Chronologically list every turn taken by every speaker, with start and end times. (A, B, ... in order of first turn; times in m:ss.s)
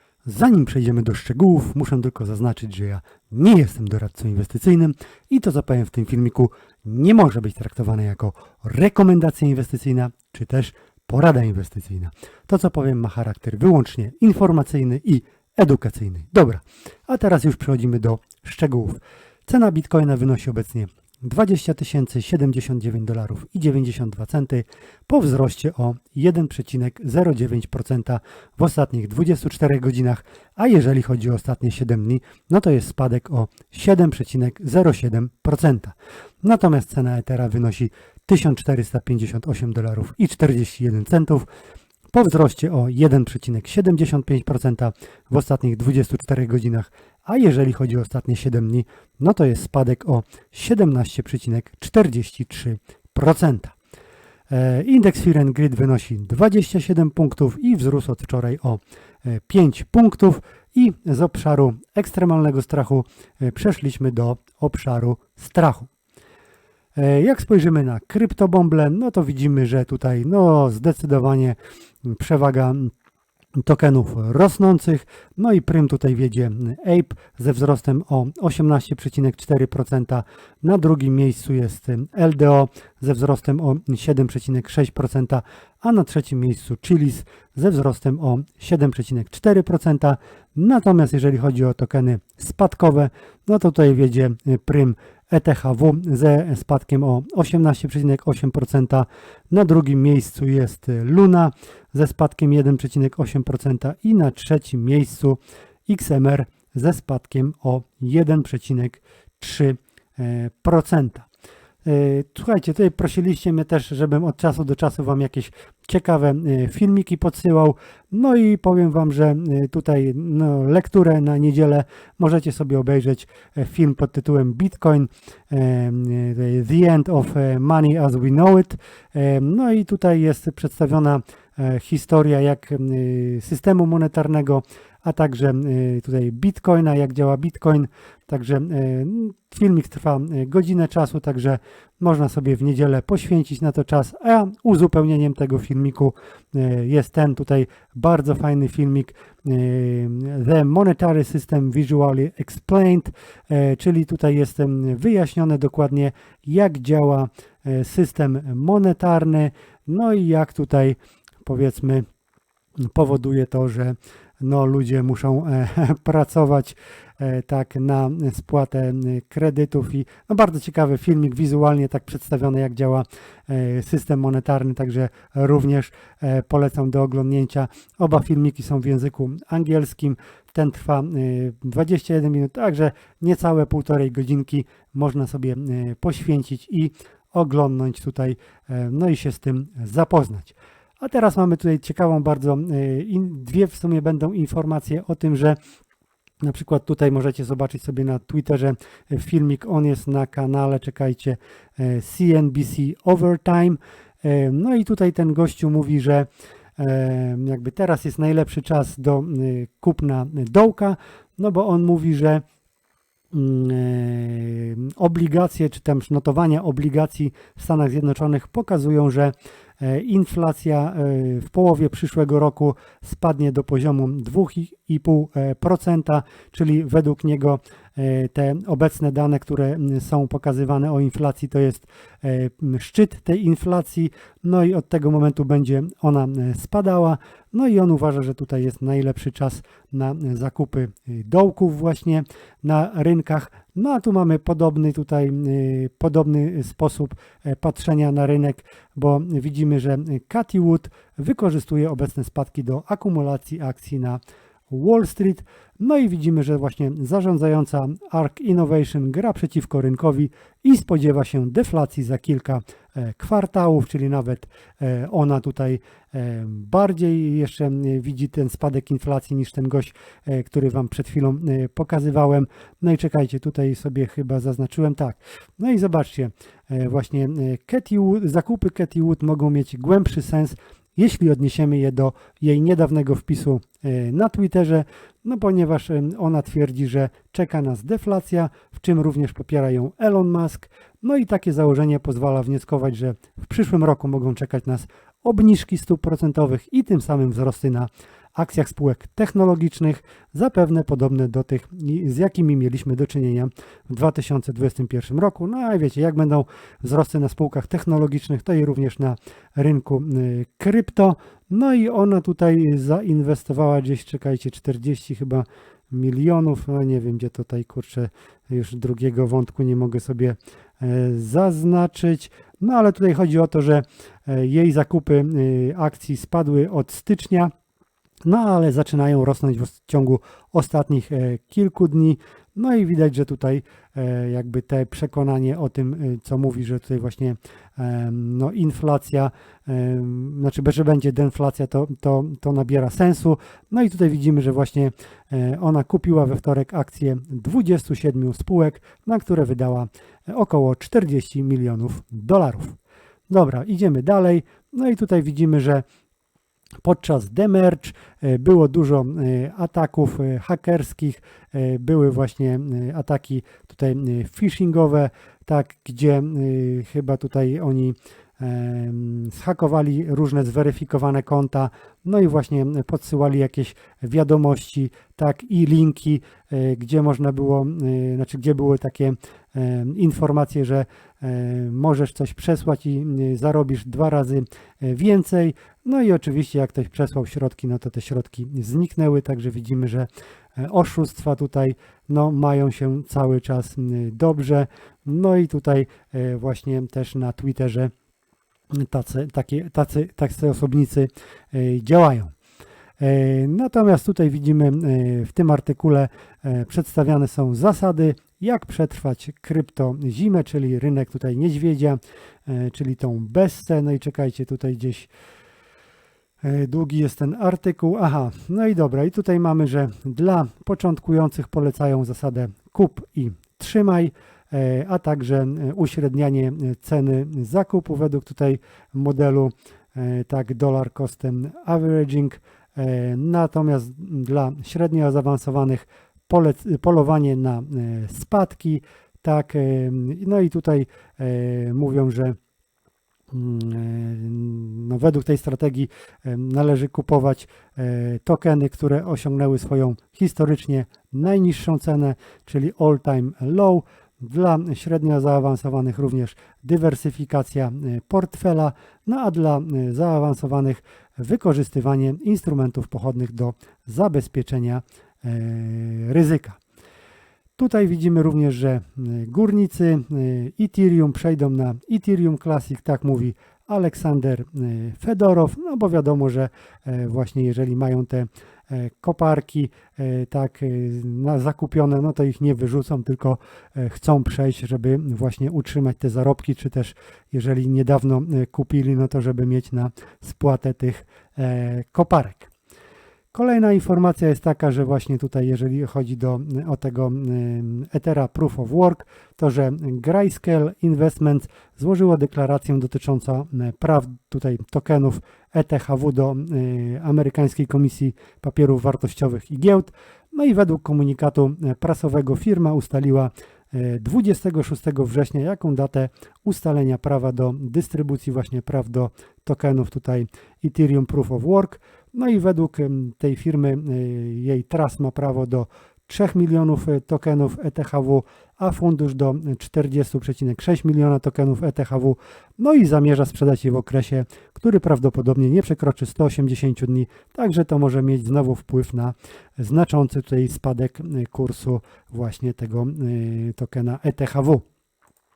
0:00.2-0:41.5 A
0:42.1-0:53.7 A
0:54.5-1:05.9 A
1:07.0-1:12.9 A
1:13.6-1:51.3 A
1:51.8-2:42.0 A
2:42.9-3:15.6 A
3:16.4-3:32.4 A
3:33.3-5:27.5 A
5:28.2-5:52.8 A
5:53.3-5:55.8 A
5:56.8-6:37.9 A
6:38.7-6:42.3 A
6:43.0-6:55.1 A
6:56.4-7:22.4 A
7:23.3-7:46.6 A
7:47.6-8:12.5 A
8:13.3-9:04.6 A